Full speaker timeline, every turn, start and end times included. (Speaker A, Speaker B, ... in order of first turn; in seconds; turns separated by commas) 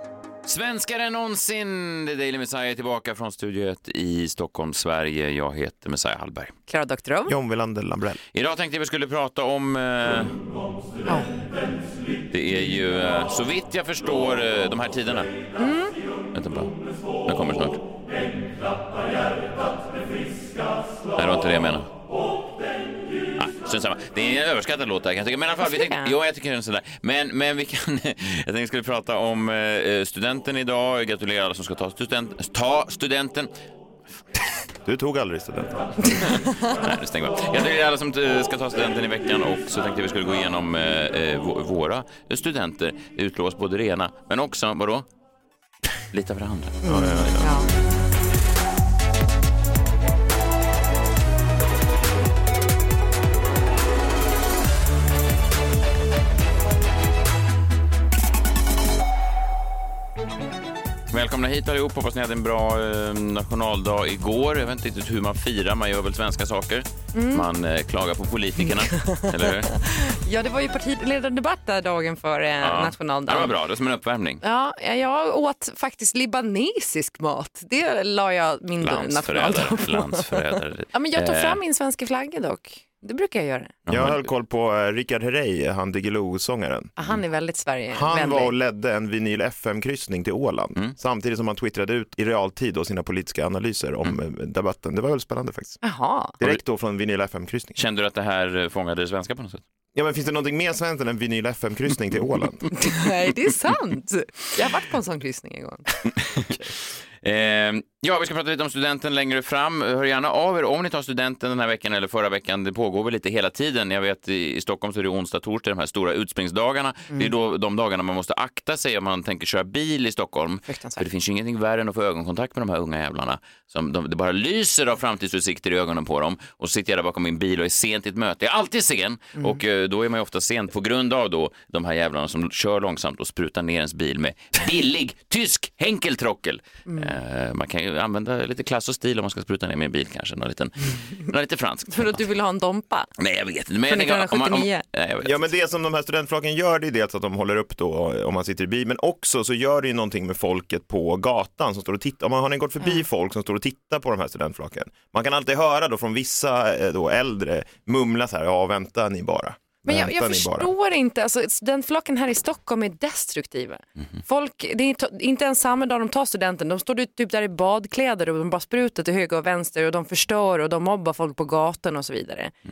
Speaker A: 0.5-6.5, Speaker B: 6.7-7.3, Speaker C: 7.3-8.2, Speaker A: 8.3-10.3, Speaker A: 12.3-15.3, Speaker B: 15.6-16.0, Speaker A: 16.3-16.7, Speaker A: 17.2-17.8, Speaker A: 21.1-21.9, Speaker A: 23.4-33.5, Speaker B: 25.6-26.1, Speaker C: 34.8-36.5, Speaker A: 36.2-45.1, Speaker A: 46.1-46.8, Speaker B: 46.8-47.7, Speaker C: 46.9-47.5, Speaker A: 61.1-69.7, Speaker B: 67.1-67.5, Speaker B: 68.6-73.5, Speaker A: 72.6-74.4, Speaker B: 74.4-83.8, Speaker A: 78.8-81.6, Speaker A: 83.9-84.3, Speaker C: 83.9-86.9, Speaker B: 87.0-88.5, Speaker C: 88.0-95.8, Speaker B: 95.8-96.4, Speaker C: 96.4-97.8, Speaker A: 97.8-99.6, Speaker C: 99.9-102.8, Speaker B: 102.8-105.9, Speaker A: 107.2-142.2, Speaker B: 120.7-121.0, Speaker B: 136.9-137.2, Speaker B: 141.9-143.1, Speaker A: 143.2-145.5, Speaker B: 143.9-144.8, Speaker C: 145.2-160.7, Speaker B: 159.8-172.5